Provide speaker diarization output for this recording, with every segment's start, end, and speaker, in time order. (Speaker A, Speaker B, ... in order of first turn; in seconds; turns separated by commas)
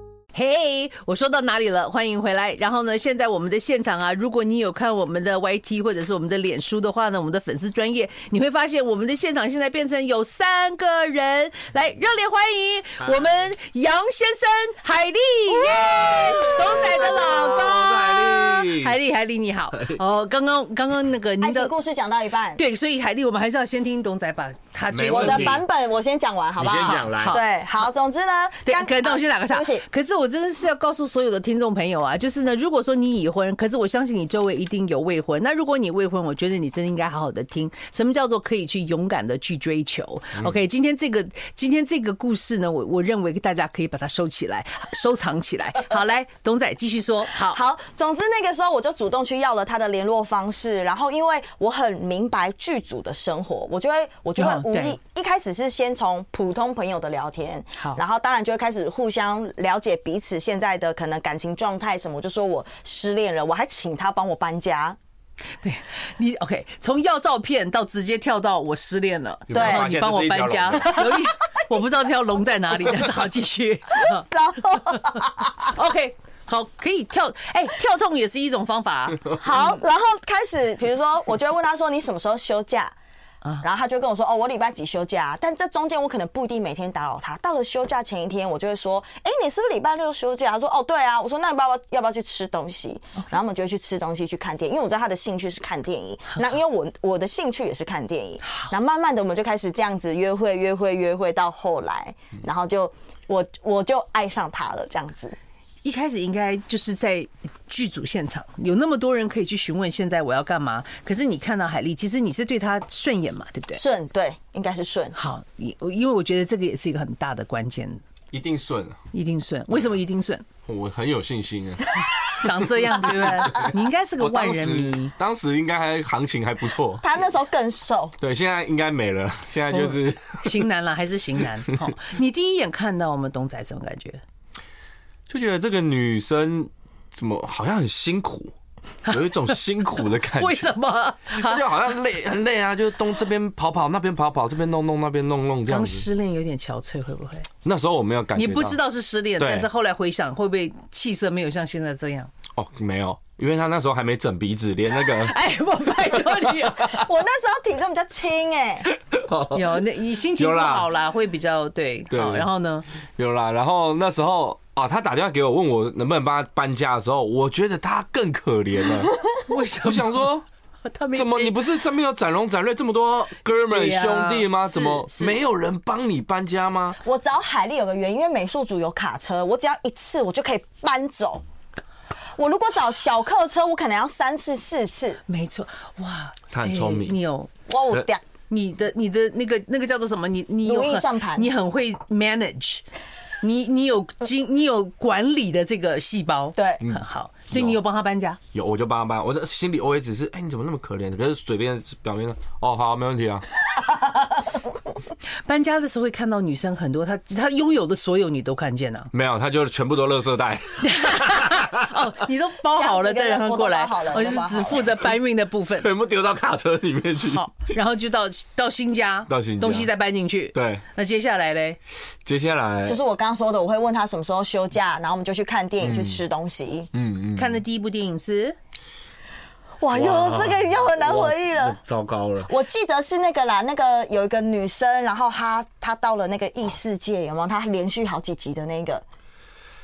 Speaker A: 0.3-21.7, Speaker B: 15.5-17.6, Speaker C: 16.2-18.9, Speaker B: 21.4-22.6, Speaker A: 22.6-25.6, Speaker C: 24.9-25.6, Speaker B: 25.1-29.8, Speaker C: 26.6-27.4, Speaker A: 26.8-27.4, Speaker A: 28.6-47.6, Speaker B: 47.3-65.0, Speaker A: 54.4-55.0, Speaker A: 65.6-79.8, Speaker C: 69.5-71.0, Speaker B: 69.5-69.8, Speaker B: 71.0-71.2, Speaker B: 74.0-75.7, Speaker B: 79.4-82.9, Speaker B: 83.6-105.3, Speaker A: 98.4-98.7, Speaker A: 105.8-113.8, Speaker B: 113.7-115.1, Speaker A: 115.1-118.0, Speaker C: 118.3-119.0, Speaker A: 119.1-120.4, Speaker C: 120.7-127.0, Speaker A: 122.3-125.1, Speaker B: 127.0-128.1, Speaker C: 128.2-130.6, Speaker A: 129.7-134.2, Speaker C: 135.3-138.5, Speaker A: 139.1-139.3, Speaker C: 139.1-140.7, Speaker A: 140.4-141.7, Speaker C: 141.3-146.1, Speaker A: 145.7-147.5, Speaker C: 147.6-148.8, Speaker A: 148.3-152.3, Speaker C: 149.4-149.7, Speaker C: 152.5-155.3, Speaker A: 155.2-157.0, Speaker B: 156.8-158.9, Speaker C: 159.1-159.8, Speaker A: 159.5-162.8, Speaker C: 160.4-160.9, Speaker C: 162.1-162.5, Speaker C: 163.2-169.1, Speaker A: 169.5-170.3, Speaker C: 169.7-170.4, Speaker A: 170.8-171.6, Speaker C: 171.1-177.0, Speaker A: 173.7-175.4, Speaker B: 177.0-181.4, Speaker B: 182.3-185.2, Speaker A: 185.3-187.5, Speaker C: 186.5-187.2, Speaker B: 187.7-188.2, Speaker A: 188.5-192.8, Speaker B: 190.6-191.5, Speaker A: 193.4-198.4, Speaker B: 196.6-196.8, Speaker C: 196.8-197.8, Speaker C: 198.5-203.4, Speaker B: 203.9-204.6, Speaker A: 205.4-209.1, Speaker C: 209.1-211.8, Speaker A: 210.8-215.9, Speaker B: 212.7-215.0, Speaker C: 215.8-217.4, Speaker A: 217.3-221.8, Speaker C: 219.3-219.9, Speaker C: 220.5-220.8, Speaker C: 222.2-223.0, Speaker B: 222.8-226.9, Speaker C: 225.8-226.2, Speaker C: 226.9-227.6, Speaker A: 227.3-228.6, Speaker B: 229.8-231.8, Speaker C: 229.9-232.5, Speaker B: 232.5-239.0